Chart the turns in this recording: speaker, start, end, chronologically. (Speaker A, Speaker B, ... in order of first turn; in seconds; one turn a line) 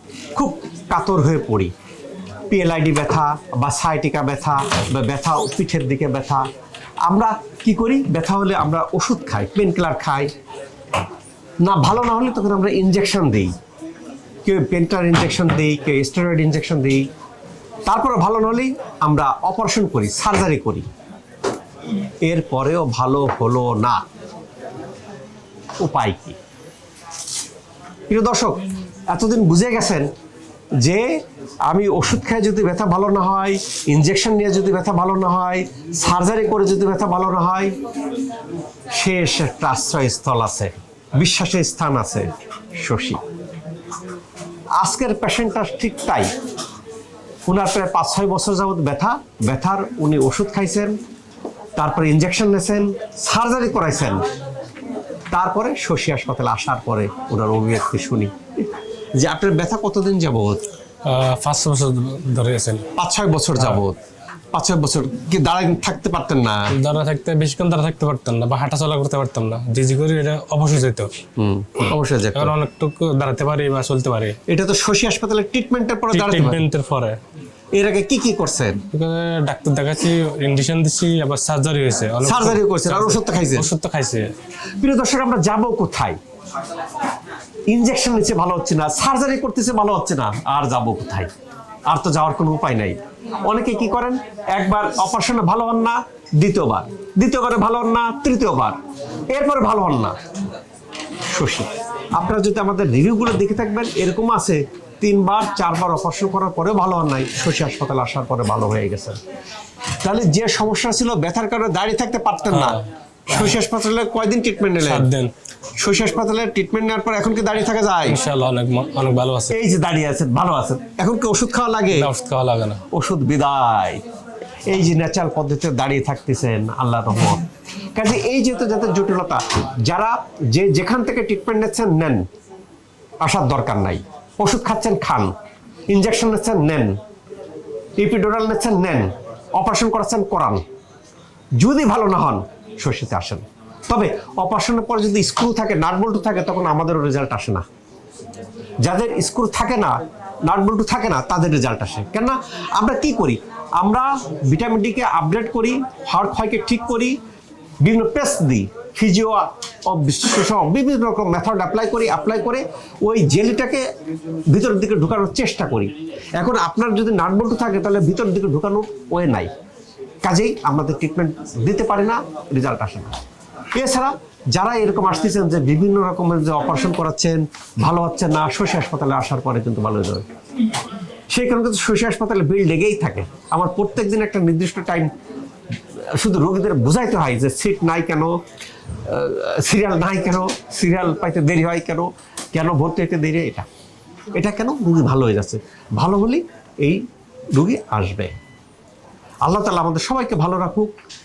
Speaker A: 0.4-1.7
Speaker A: 2.5-6.5
Speaker A: 7.0-10.3
Speaker A: 11.6-13.5
Speaker A: 14.4-17.1
Speaker A: 17.9-20.9
Speaker A: 22.2-24.0
Speaker A: 25.8-26.4
Speaker A: 28.1-30.1
Speaker A: 30.8-37.8
Speaker A: 38.9-43.2
Speaker A: 44.8-46.3
Speaker A: 47.5-51.0
Speaker A: 51.8-54.2
Speaker A: 55.3-60.6
Speaker B: 61.0-62.9
Speaker A: 63.0-64.0
Speaker B: 63.6-63.8
Speaker A: 64.5-66.8
Speaker B: 66.7-71.1
Speaker A: 71.4-72.5
Speaker B: 72.3-74.4
Speaker A: 74.5-76.6
Speaker B: 76.1-77.2
Speaker A: 77.7-78.8
Speaker B: 78.9-84.3
Speaker A: 82.2-83.7
Speaker A: 84.8-86.2
Speaker A: 87.7-91.3
Speaker A: 91.9-98.8
Speaker A: 99.3-100.2
Speaker A: 101.3-109.2
Speaker A: 110.0-115.1
Speaker B: 112.5-113.6
Speaker B: 114.8-115.3
Speaker A: 115.8-118.2
Speaker B: 118.1-119.6
Speaker A: 119.5-122.1
Speaker B: 121.9-122.8
Speaker A: 122.9-124.0
Speaker A: 124.7-132.2
Speaker A: 133.2-135.3
Speaker A: 135.9-137.0
Speaker A: 138.0-140.6
Speaker A: 141.6-147.7
Speaker A: 148.8-157.2
Speaker A: 157.8-163.9
Speaker A: 164.5-169.5
Speaker A: 170.2-173.2
Speaker A: 173.7-180.3
Speaker A: 181.3-185.1
Speaker A: 186.1-188.3
Speaker A: 189.0-193.7
Speaker A: 194.3-198.3
Speaker A: 199.4-200.9